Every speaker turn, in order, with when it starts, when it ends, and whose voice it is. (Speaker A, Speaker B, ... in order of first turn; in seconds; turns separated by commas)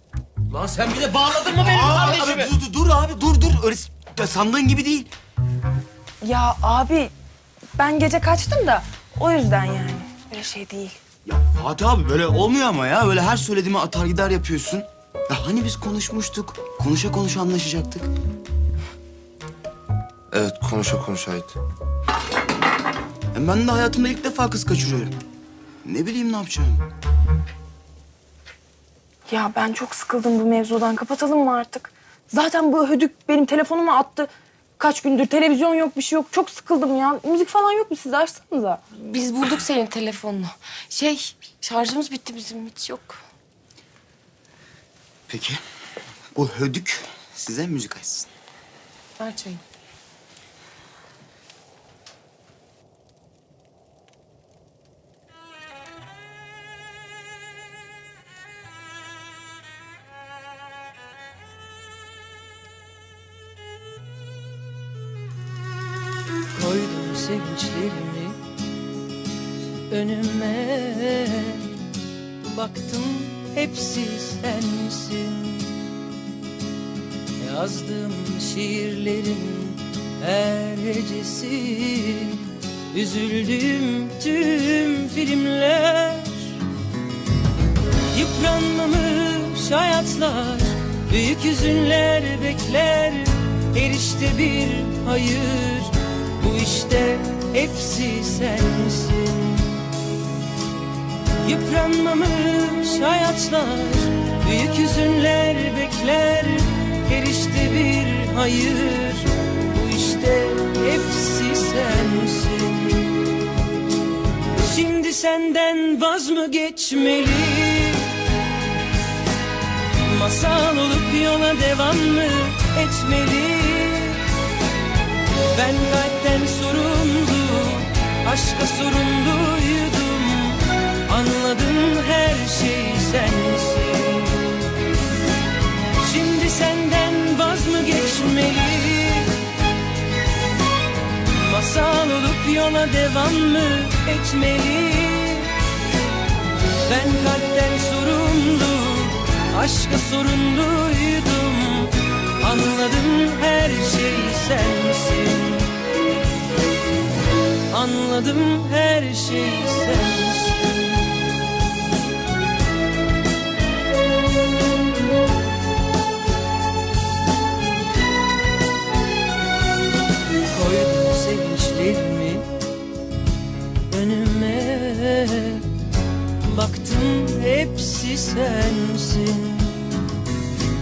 Speaker A: 0.6-1.2, Speaker B: 1.4-5.1, Speaker A: 1.8-2.3, Speaker C: 6.2-7.1, Speaker C: 7.8-11.0, Speaker B: 11.2-18.1, Speaker A: 20.3-21.5, Speaker B: 23.3-25.2, Speaker B: 25.8-26.9, Speaker C: 29.3-38.8, Speaker D: 38.9-43.2, Speaker B: 45.3-45.6, Speaker B: 46.3-48.3, Speaker D: 49.2-49.6, Speaker E: 66.5-68.4, Speaker E: 69.9-71.7, Speaker E: 72.4-75.8, Speaker E: 77.4-86.6, Speaker E: 88.1-99.8, Speaker E: 101.4-113.2, Speaker E: 114.5-118.2, Speaker E: 120.0-124.2, Speaker E: 125.5-134.6, Speaker E: 136.0-139.4, Speaker E: 141.3-145.5, Speaker E: 146.8-155.7, Speaker E: 157.7-160.9, Speaker E: 170.5-172.5, Speaker E: 173.9-175.7, Speaker E: 176.4-180.0